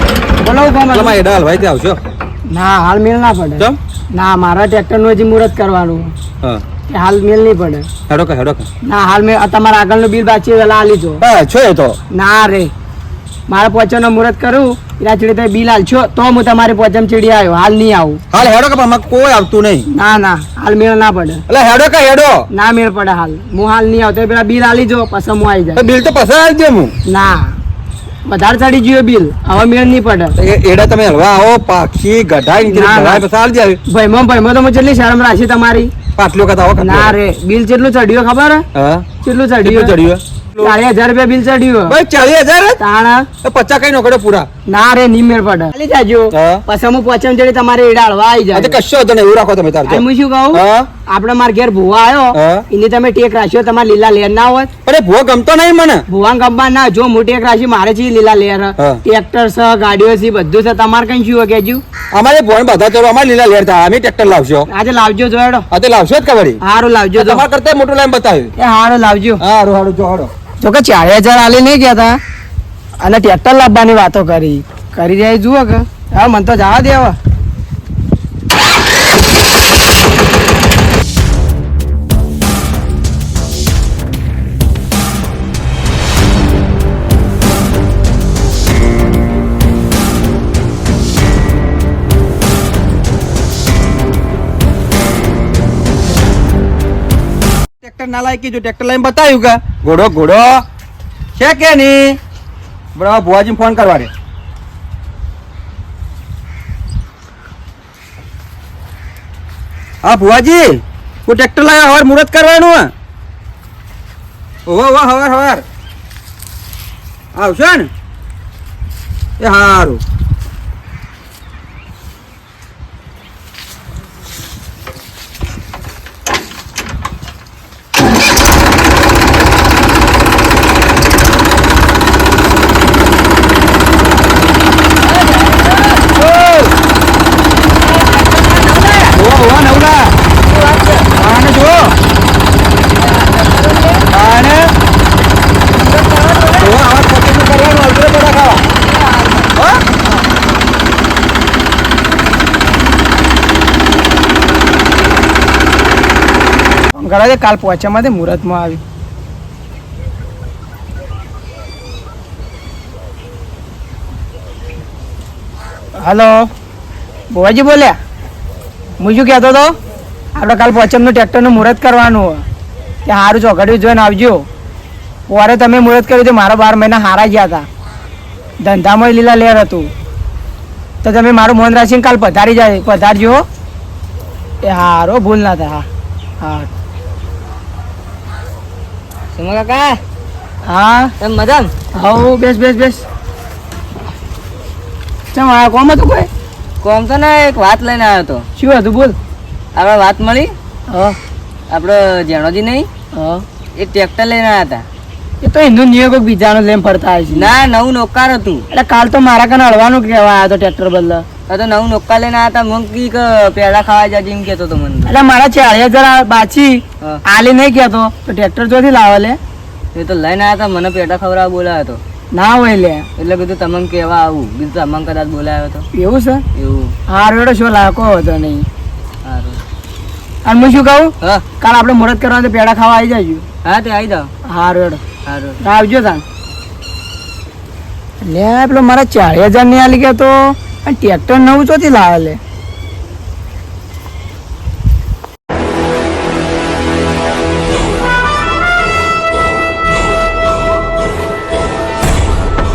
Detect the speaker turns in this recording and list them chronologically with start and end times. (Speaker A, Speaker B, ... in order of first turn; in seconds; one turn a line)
Speaker A: 0.4-1.2
Speaker B: 0.9-2.0
Speaker A: 2.5-6.1
Speaker A: 6.9-7.9
Speaker B: 8.1-8.7
Speaker A: 8.8-11.2
Speaker B: 11.2-12.0
Speaker A: 12.1-12.7
Speaker A: 13.5-18.2
Speaker B: 18.3-19.9
Speaker A: 19.9-21.4
Speaker B: 21.5-22.4
Speaker A: 22.5-25.9
Speaker B: 25.8-26.9
Speaker A: 27.1-27.6
Speaker A: 28.3-30.3
Speaker B: 30.4-33.8
Speaker A: 32.6-33.2
Speaker A: 33.9-35.9
Speaker B: 36.1-37.1
Speaker A: 36.8-38.6
Speaker B: 38.7-39.1
Speaker A: 39.2-40.0
Speaker B: 39.6-40.7
Speaker A: 40.6-42.0
Speaker B: 41.9-42.8
Speaker A: 42.8-43.2
Speaker B: 43.4-44.5
Speaker A: 44.7-48.8
Speaker B: 46.3-46.6
Speaker B: 48.5-50.9
Speaker A: 49.9-54.7
Speaker B: 52.3-52.6
Speaker B: 54.8-56.0
Speaker A: 56.1-61.8
Speaker B: 62.1-64.7
Speaker A: 64.7-65.7
Speaker B: 65.7-66.6
Speaker A: 66.6-67.5
Speaker B: 67.2-68.5
Speaker A: 68.6-69.4
Speaker B: 69.4-70.3
Speaker A: 70.6-72.1
Speaker A: 73.0-77.2
Speaker B: 97.8-100.6
Speaker B: 101.3-102.2
Speaker B: 102.9-104.1
Speaker B: 110.0-112.9
Speaker B: 114.7-115.6
Speaker B: 117.3-117.9
Speaker B: 119.4-120.0
Speaker C: 135.2-136.1
Speaker B: 136.2-136.7
Speaker A: 138.0-139.0
Speaker B: 139.1-140.2
Speaker C: 140.6-141.1
Speaker B: 141.1-141.9
Speaker A: 143.0-143.9
Speaker B: 144.1-144.7
Speaker A: 145.7-146.7
Speaker B: 146.6-148.7
Speaker A: 148.9-149.3
Speaker B: 149.5-149.8
Speaker A: 156.9-158.8
Speaker A: 166.0-166.3
Speaker A: 167.3-167.9
Speaker A: 169.0-169.7
Speaker A: 170.3-172.4
Speaker A: 173.0-174.4
Speaker A: 175.3-177.7
Speaker A: 178.6-179.9
Speaker A: 181.0-183.4
Speaker A: 184.6-185.8
Speaker A: 186.4-186.7
Speaker C: 189.3-189.9
Speaker A: 190.7-191.1
Speaker C: 191.2-191.7
Speaker A: 191.9-193.0
Speaker A: 195.3-196.3
Speaker C: 196.8-198.4
Speaker A: 198.6-199.2
Speaker C: 199.8-200.5
Speaker A: 200.9-201.2
Speaker C: 201.7-202.9
Speaker A: 203.1-203.4
Speaker C: 203.8-204.8
Speaker A: 205.4-207.5
Speaker C: 207.3-208.6
Speaker A: 208.7-211.2
Speaker C: 211.5-215.1
Speaker A: 215.1-219.4
Speaker C: 219.9-222.0
Speaker A: 222.3-223.1
Speaker C: 223.2-225.8
Speaker A: 225.9-226.4
Speaker C: 226.5-226.9
Speaker A: 227.1-228.6
Speaker C: 229.2-229.6
Speaker A: 230.4-233.4
Speaker C: 233.6-234.3
Speaker A: 234.5-235.0
Speaker C: 235.2-235.6
Speaker A: 235.6-236.2
Speaker A: 238.2-242.4